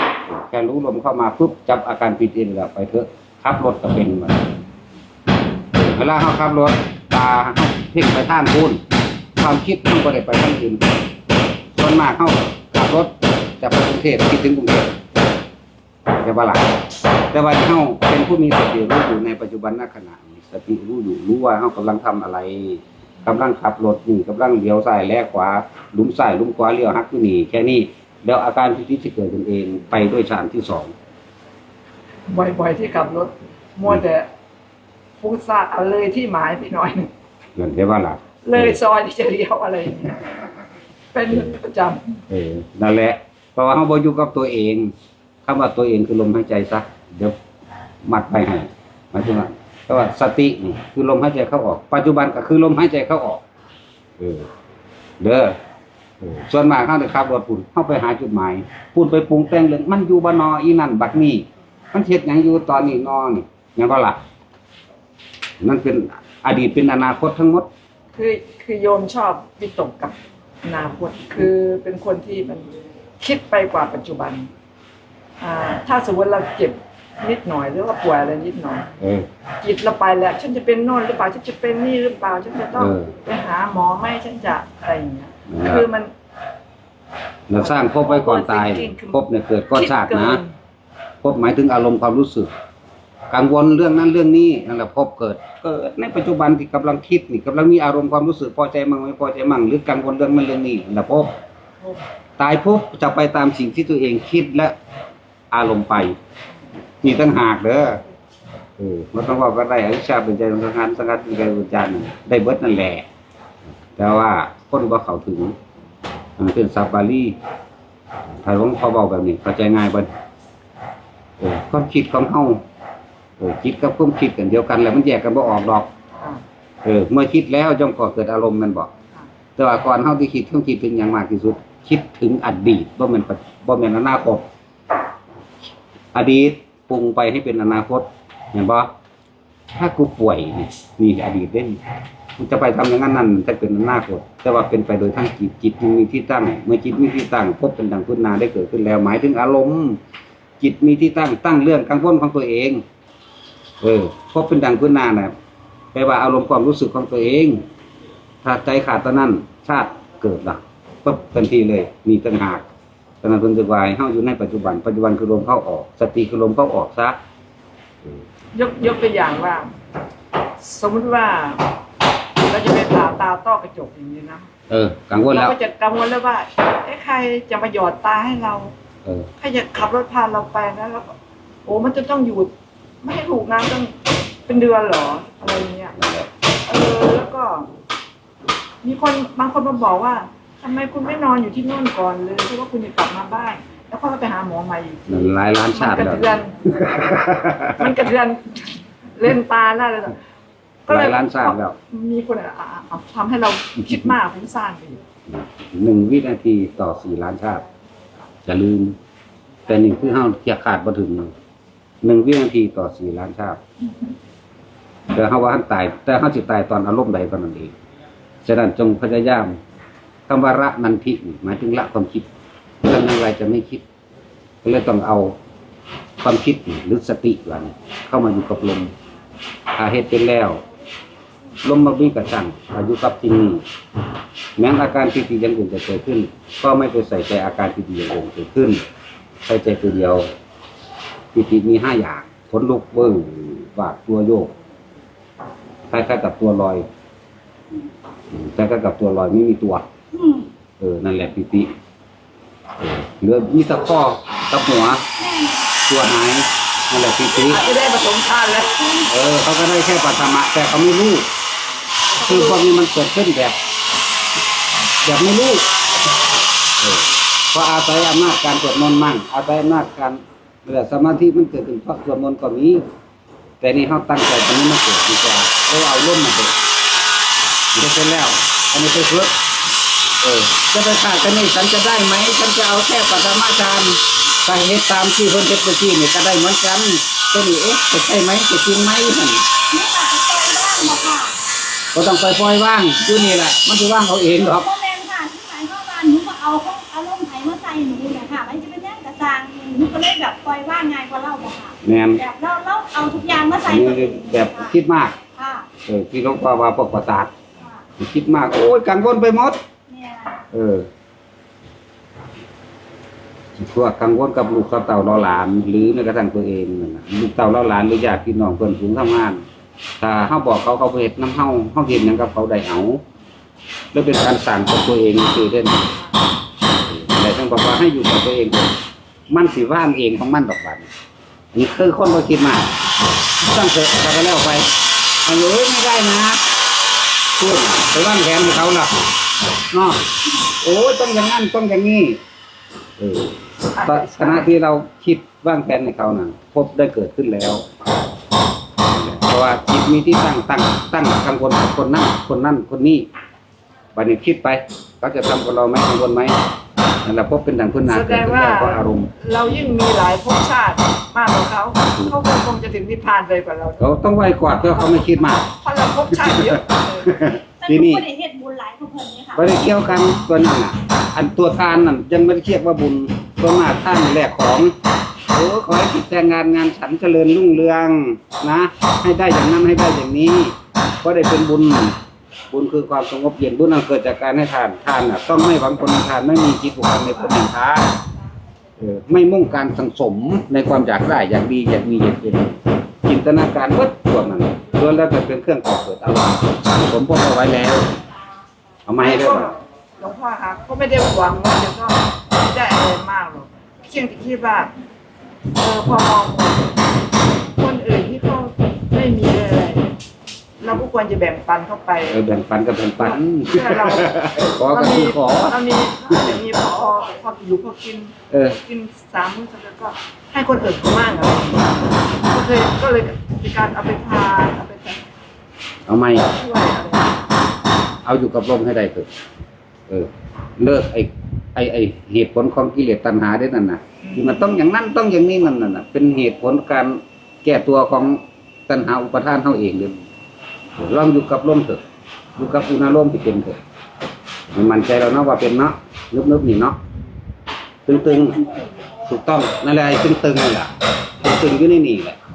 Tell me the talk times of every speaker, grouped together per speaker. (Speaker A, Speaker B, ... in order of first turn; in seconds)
Speaker A: 0.3-4.5, 5.7-8.8, 9.4-10.9, 11.8-14.9, 16.1-16.8, 17.3-30.9, 37.5-38.8, 42.3-44.9, 45.5-47.4, 48.0-53.4, 54.2-54.5, 55.2-55.6, 56.2-64.2, 65.6-67.7, 79.0-79.3, 82.8-83.1, 85.5-85.9, 87.5-90.4, 91.2-92.5, 93.3-101.3, 102.4-104.8, 105.5-106.2, 107.0-108.0, 108.8-113.1, 114.0-115.6, 116.4-117.4, 118.4-120.1, 121.4-122.6, 123.4-125.9, 126.8-128.9, 129.6-134.5, 136.1-138.9, 139.8-141.8, 142.4-150.0, 150.6-152.8, 153.8-155.3, 155.9-157.6, 158.4-162.7, 163.2-167.2, 174.7-175.6, 186.0-186.3, 195.1-197.9, 200.9-201.8, 205.3-207.7, 208.4-209.0, 209.7-211.3, 212.0-213.6, 215.1-217.7, 218.4-219.6, 220.3-222.3, 222.8-223.8, 224.6-225.4, 226.2-228.9, 229.7-230.6, 231.6-233.6, 234.6-238.8, 239.4-240.3, 241.3-244.5, 245.9-246.9, 248.3-249.9, 250.8-251.7, 252.8-255.1, 255.9-257.6, 259.1-261.3, 262.2-263.6, 265.0-265.6, 266.8-272.9, 273.6-276.6, 277.7-279.4, 280.2-289.4, 291.9-294.7, 301.8-302.2, 303.6-305.2, 305.9-307.3, 308.0-309.6, 310.5-310.9, 313.6-319.4, 320.0-323.0, 323.9-325.9, 326.7-328.8, 329.3-330.9, 331.5-332.7, 333.4-334.7, 335.2-336.4, 337.4-339.0, 339.7-340.0, 340.6-342.2, 343.0-347.6, 348.9-353.1, 353.9-356.4, 357.0-359.1, 363.8-365.4, 366.3-368.1, 369.4-374.7, 375.3-382.0, 382.5-387.9, 388.8-392.5, 393.0-397.9, 398.9-399.5, 412.1-415.6, 418.3-418.6, 425.9-426.3, 428.1-429.1, 429.9-440.0, 440.8-441.8, 442.4-443.6, 444.5-446.8, 447.9-448.4, 449.1-452.2
Speaker B: 32.3-34.3, 35.2-37.1, 38.4-40.3, 41.1-42.2, 68.2-72.7, 73.2-74.5, 75.4-78.9, 79.6-86.1, 87.6-89.2, 89.7-90.5, 168.5-169.7, 170.6-171.7, 172.5-174.5, 175.3-178.7, 179.4-182.5, 183.0-184.0, 184.5-185.9, 186.7-187.7, 188.8-196.8, 197.8-200.2, 200.9-205.0, 257.4-259.1, 262.2-262.6, 343.8-344.5, 357.9-363.9, 364.7-367.2, 399.0-404.7, 405.6-406.7, 407.6-410.0, 410.6-412.2, 413.0-425.0, 426.2-427.3, 434.0-434.4
Speaker C: 250.1-250.5, 255.2-255.8, 289.7-291.3, 294.5-304.7, 305.4-305.7, 309.9-310.4, 367.6-370.2, 447.9-448.7